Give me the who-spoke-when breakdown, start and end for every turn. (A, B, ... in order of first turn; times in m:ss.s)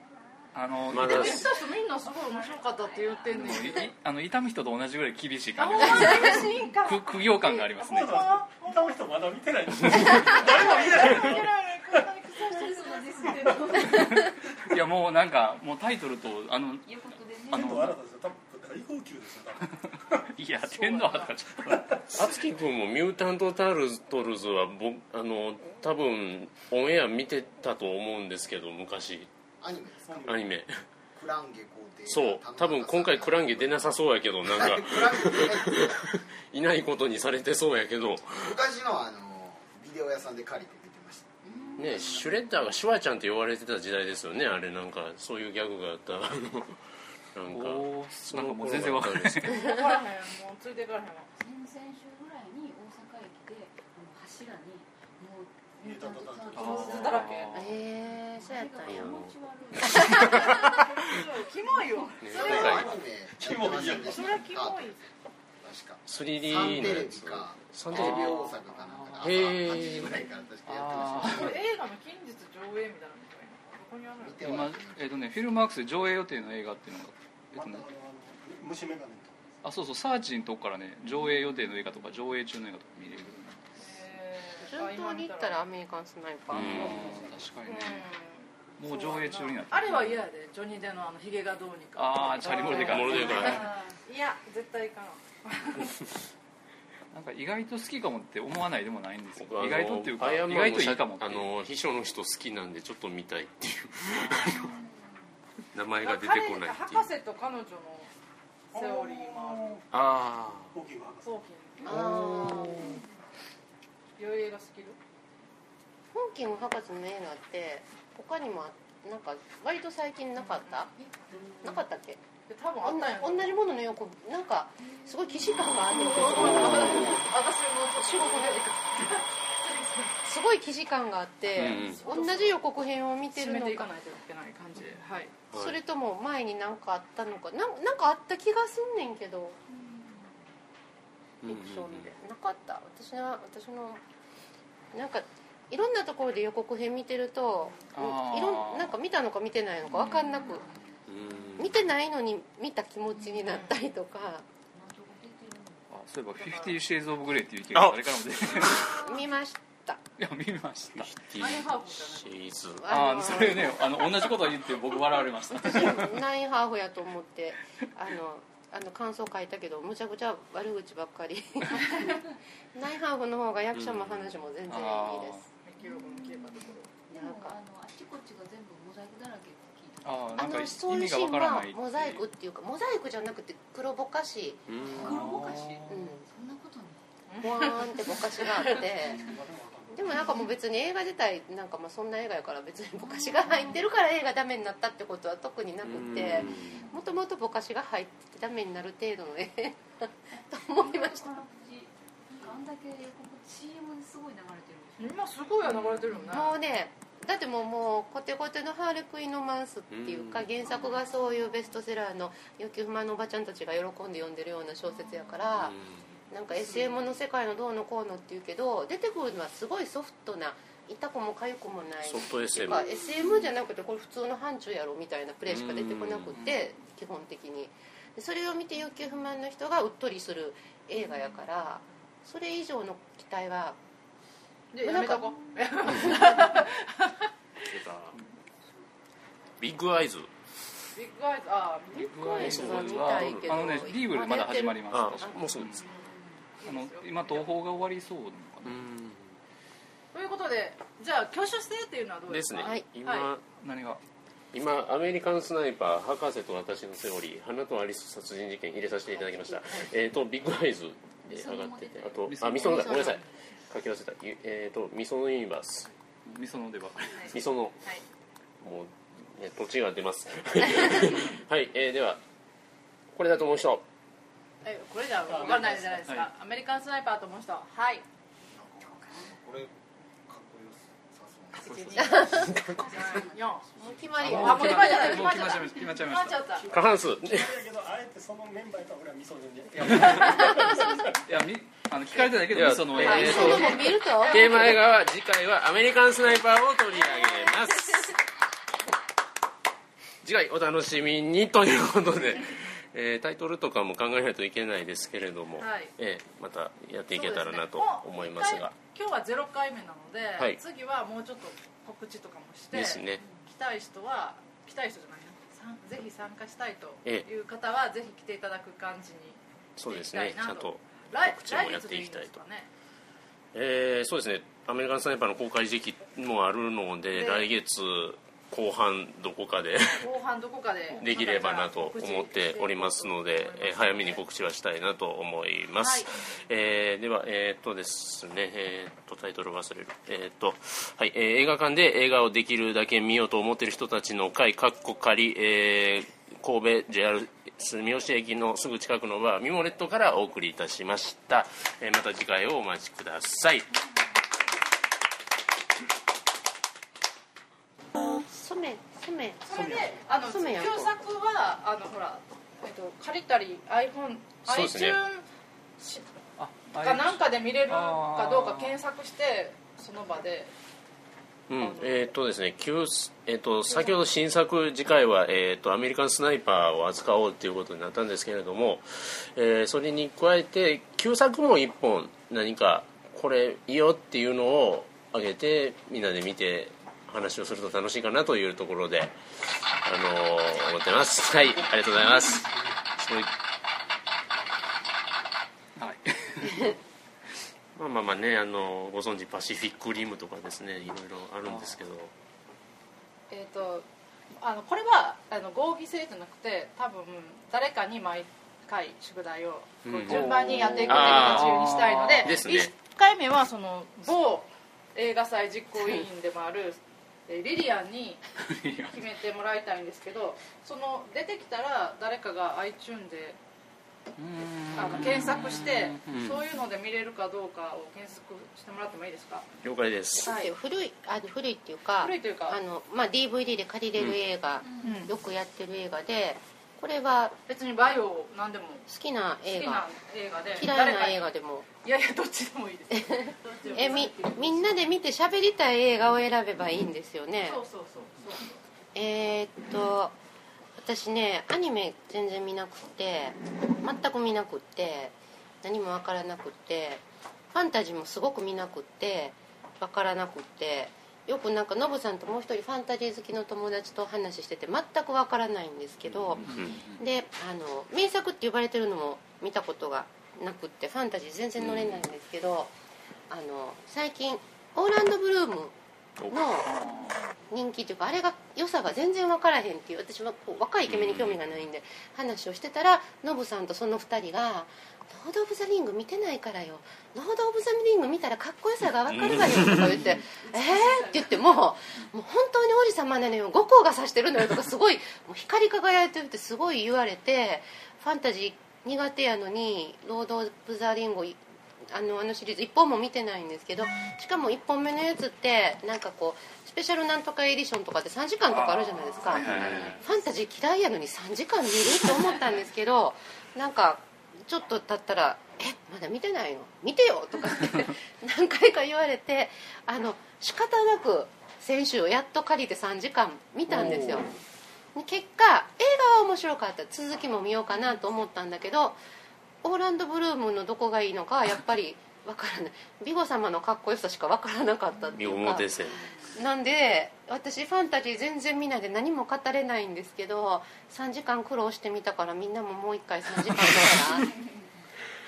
0:00.3-0:00.6 A
0:00.5-0:01.4 B
0:00.9-0:01.5 C
0:01.0-0:03.9 D
0:01.3-0:03.9 A
0:03.3-0:08.4 B
0:05.6-0:09.0 D
0:07.8-0:12.0 E
0:10.2-0:14.0 D
0:12.5-0:14.2 A
0:13.4-0:13.8 E
0:13.8-0:16.9 B
0:16.8-0:17.9 A
0:17.5-0:18.0 B
0:17.5-0:20.3 E
0:20.3-0:22.4 B
0:20.7-0:21.3 D
0:22.1-0:29.3 C
0:29.6-0:30.4 F
0:30.1-0:30.5 E
0:30.2-0:30.8 C
0:31.1-0:36.0 F
0:32.0-0:38.6 C
0:38.3-0:42.1 F
0:41.4-0:42.3 A
0:41.8-0:49.5 C
0:47.5-0:49.7 B
0:49.5-0:51.3 D
0:51.3-0:57.7 A
0:55.8-0:57.1 E
0:56.6-0:57.8 B
0:56.6-0:57.5 D
0:57.6-0:59.2 G
0:58.3-1:02.5 A
0:58.9-0:59.3 C
1:01.0-1:02.9 D
1:02.2-1:02.9 C
1:02.3-1:05.0 F
1:02.4-1:04.5 E
1:03.8-1:05.1 D
1:05.6-1:11.6 F
1:06.0-1:08.5 C
1:08.1-1:11.6 B
1:09.2-1:10.2 C
1:11.2-1:14.4 D
1:14.2-1:15.0 F
1:14.4-1:17.8 B
1:17.5-1:19.4 E
1:19.6-1:23.6 B
1:23.8-1:25.6 D
1:24.6-1:27.1 G
1:26.5-1:28.1 B
1:26.5-1:27.0 C
1:26.9-1:27.4 A
1:27.6-1:35.9 D
1:28.8-1:30.2 B
1:32.0-1:33.5 B
1:32.4-1:33.7 C
1:33.0-1:34.0 A
1:37.1-1:41.5 B
1:39.4-1:44.7 C
1:44.2-1:44.6 B
1:44.5-1:45.3 A
1:45.7-1:47.1 C
1:46.0-1:48.1 D
1:48.7-1:49.8 D
1:48.7-1:49.8 E
1:49.9-1:50.8 C
1:50.7-1:53.0 E
1:51.2-1:52.9 D
1:51.8-1:53.0 G
1:54.2-1:55.0 D
1:56.1-2:00.9 G
2:00.7-2:01.8 D
2:01.6-2:02.2 G
2:02.5-2:03.6 D
2:02.8-2:07.3 G
2:04.8-2:05.1 A
2:05.9-2:10.2 D
2:06.4-2:06.8 C
2:08.0-2:08.7 G
2:10.2-2:13.9 G
2:11.5-2:12.0 C
2:11.8-2:12.6 D
2:13.3-2:15.4 D
2:15.5-2:15.8 C
2:15.5-2:19.6 G
2:19.7-2:20.4 A
2:21.4-2:22.1 C
2:21.4-2:24.0 G
2:24.9-2:30.6 G
2:27.9-2:29.0 B
2:29.9-2:30.5 B
2:30.0-2:31.5 A
2:31.1-2:31.8 C
2:31.6-2:34.4 G
2:33.1-2:33.8 A
2:34.7-2:35.9 A
2:35.9-2:39.1 B
2:36.4-2:36.7 D
2:37.7-2:38.7 C
2:38.9-2:40.0 G
2:39.0-2:39.3 A
2:40.2-2:41.2 B
2:40.9-2:42.9 C
2:41.3-2:42.4 D
2:42.8-2:44.2 G
2:42.9-2:46.1 B
2:45.6-2:55.4 G
2:51.8-2:52.2 A
2:53.7-2:54.3 C
2:54.7-2:55.4 B
2:55.6-2:56.9 D
2:55.8-3:00.6 A
2:57.1-2:57.6 G
3:00.0-3:02.2 B
3:00.4-3:04.6 G
3:04.7-3:05.1 C
3:04.9-3:07.0 A
3:04.9-3:06.0 B
3:05.9-3:06.2 G
3:07.3-3:08.8 D
3:07.4-3:09.3 G
3:08.1-3:08.4 A
3:09.2-3:10.2 E
3:09.9-3:21.3 G
3:10.1-3:10.5 A
3:13.0-3:13.8 A
3:15.8-3:16.8 C
3:16.1-3:17.0 A
3:20.3-3:25.2 A
3:25.0-3:26.6 D
3:26.2-3:35.8 G
3:29.9-3:30.5 C
3:30.6-3:31.2 A
3:34.9-3:35.4 A
3:35.6-3:36.0 C
3:36.3-3:53.8 G
3:36.5-3:37.1 A
3:42.0-3:42.9 C
3:43.2-3:43.5 A
3:45.4-3:46.4 C
3:46.3-3:46.6 B
3:54.7-3:57.3 D
3:54.8-3:55.3 G
3:57.6-3:58.2 C
3:59.6-4:00.3 C
4:00.9-4:02.7 D
4:01.9-4:05.6 G
4:01.9-4:05.8 B
4:02.4-4:03.7 C
4:04.9-4:05.8 C
4:05.8-4:06.4 A
4:06.6-4:07.5 D
4:06.6-4:08.8 B
4:08.6-4:09.4 C
4:10.1-4:13.3 D
4:12.3-4:13.4 C
4:13.6-4:14.0 B
4:14.5-4:25.9 C
4:19.4-4:19.9 G
4:21.3-4:23.2 A
4:22.3-4:23.2 B
4:26.3-4:27.4 B
4:27.3-4:27.8 C
4:28.6-4:32.2 C
4:33.1-4:33.8 C
4:34.6-4:38.0 D
4:35.2-4:36.1 E
4:38.5-4:42.0 F
4:38.8-4:39.4 A
4:41.7-4:42.3 B
4:42.0-4:42.3 G
4:42.0-4:43.2 C
4:42.1-4:45.1 A
4:42.9-4:46.7 D
4:43.8-4:45.2 G
4:44.2-4:46.5 B
4:46.5-4:51.2 E
4:46.7-4:47.6 C
4:49.9-4:50.2 B
4:51.2-4:53.8 B
4:52.5-4:58.1 C
4:53.0-4:54.8 D
4:53.0-4:54.8 G
5:00.2-5:08.7 C
5:05.6-5:05.9 D
5:07.1-5:22.7 D
5:12.7-5:13.2 C
5:19.8-5:22.4 C
5:23.5-5:30.1 C
5:27.1-5:27.4 D
5:29.9-5:34.2 D
5:30.9-5:53.7 C
5:35.7-5:36.2 D
5:58.3-5:59.4 G
5:59.4-6:05.2 D
5:59.5-6:00.1 E
6:00.2-6:00.9 G
6:04.4-6:05.0 C
6:05.8-6:06.1 D
6:06.4-6:08.8 B
6:06.7-6:10.5 D
6:11.5-6:33.3 C
6:11.6-6:12.1 D
6:13.7-6:14.0 D
6:35.8-6:36.8 B
6:37.8-6:42.1 C
6:41.4-6:41.8 B
6:43.3-6:43.8 D
6:44.4-6:58.2 D
6:49.8-6:51.7 C
6:50.1-6:52.4 B
6:52.2-6:52.7 C
6:58.4-6:59.0 B
6:58.9-7:03.4 D
7:04.2-7:06.2 B
7:04.7-7:09.5 D
7:06.1-7:06.4 C
7:09.6-7:10.3 C
7:10.2-7:17.4 G
7:10.2-7:10.5 D
7:12.0-7:12.6 D
7:14.6-7:15.1 A
7:14.8-7:15.1 D
7:17.5-7:18.9 D
7:18.9-7:19.9 G
7:19.4-7:21.2 D
7:20.6-7:21.7 G
7:21.8-7:24.1 D
7:22.9-7:27.6 G
7:23.4-7:25.0 A
7:27.4-7:28.6 D
7:28.9-7:30.1 G
7:30.8-7:37.0 G
7:37.5-7:46.4 G
7:46.0-7:46.8 C
7:46.4-7:47.0 B
7:47.0-7:52.7 G
7:51.6-7:52.1 C
7:53.3-7:55.7 G
7:56.2-7:56.5 C
7:56.3-7:56.7 G
7:56.6-7:57.2 B
7:57.5-8:21.4 G
8:00.9-8:01.5 C
8:09.1-8:10.0 C
8:09.6-8:11.7 A
8:21.9-8:44.3 G
8:28.5-8:30.0 B
8:29.0-8:30.4 A
8:29.4-8:29.9 C
8:43.7-8:44.2 B
8:44.9-8:49.0 G
8:47.7-8:48.0 A
8:49.6-9:04.3 G
8:54.9-8:56.4 A
8:55.1-8:56.0 C
9:03.5-9:04.0 C
9:04.1-9:04.9 A